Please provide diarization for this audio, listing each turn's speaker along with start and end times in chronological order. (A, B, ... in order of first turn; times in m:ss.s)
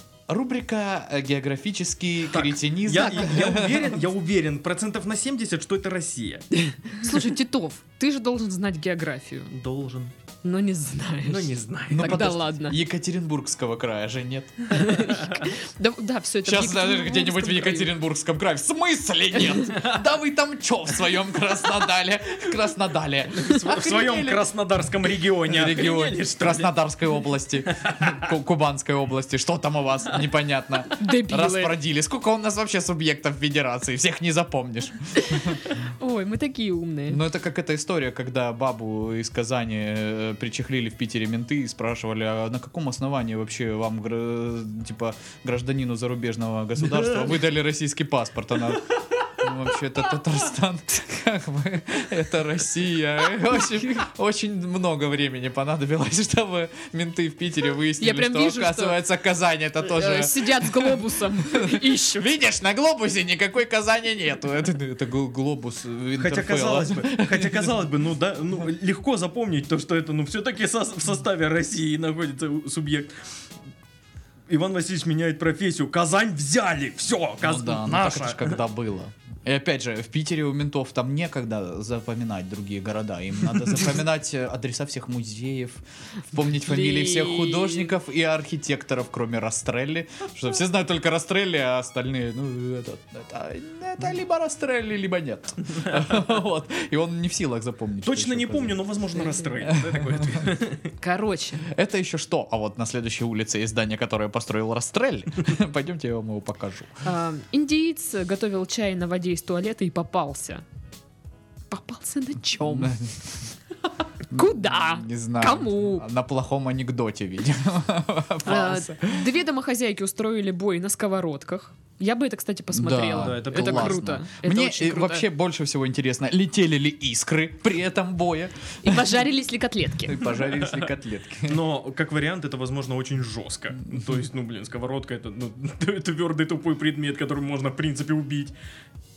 0:00.3-0:04.0 A
0:02.3-0:06.5 B
0:06.5-0:09.5 C
0:09.5-0:10.1 B
0:10.4-0:12.8 C
0:11.2-0:12.3 B
0:11.9-0:15.4 A
0:14.7-0:18.0 C
0:16.4-0:24.5 A
0:19.7-0:20.0 B
0:23.3-0:26.7 B
0:25.5-0:35.7 A
0:27.7-0:28.2 B
0:30.9-0:31.8 C
0:35.2-0:37.2 C
0:37.1-1:07.7 A
0:58.0-0:59.0 C
0:59.8-1:02.3 C
1:06.2-1:13.1 B
1:14.5-1:18.6 B
1:17.4-1:38.8 A
1:26.6-1:27.9 C
1:38.0-1:40.9 B
1:39.7-1:40.4 A
1:41.0-1:41.7 C
1:41.7-1:47.0 A
1:47.0-1:50.6 C
1:51.7-1:53.0 C
1:52.6-1:53.5 A
1:54.3-1:59.3 A
1:54.3-1:56.1 C
1:58.4-2:05.3 C
2:02.7-2:09.0 A
2:03.1-2:04.1 B
2:08.8-2:10.4 C
2:10.0-2:11.6 A
2:10.5-2:10.9 B
2:11.5-2:18.5 B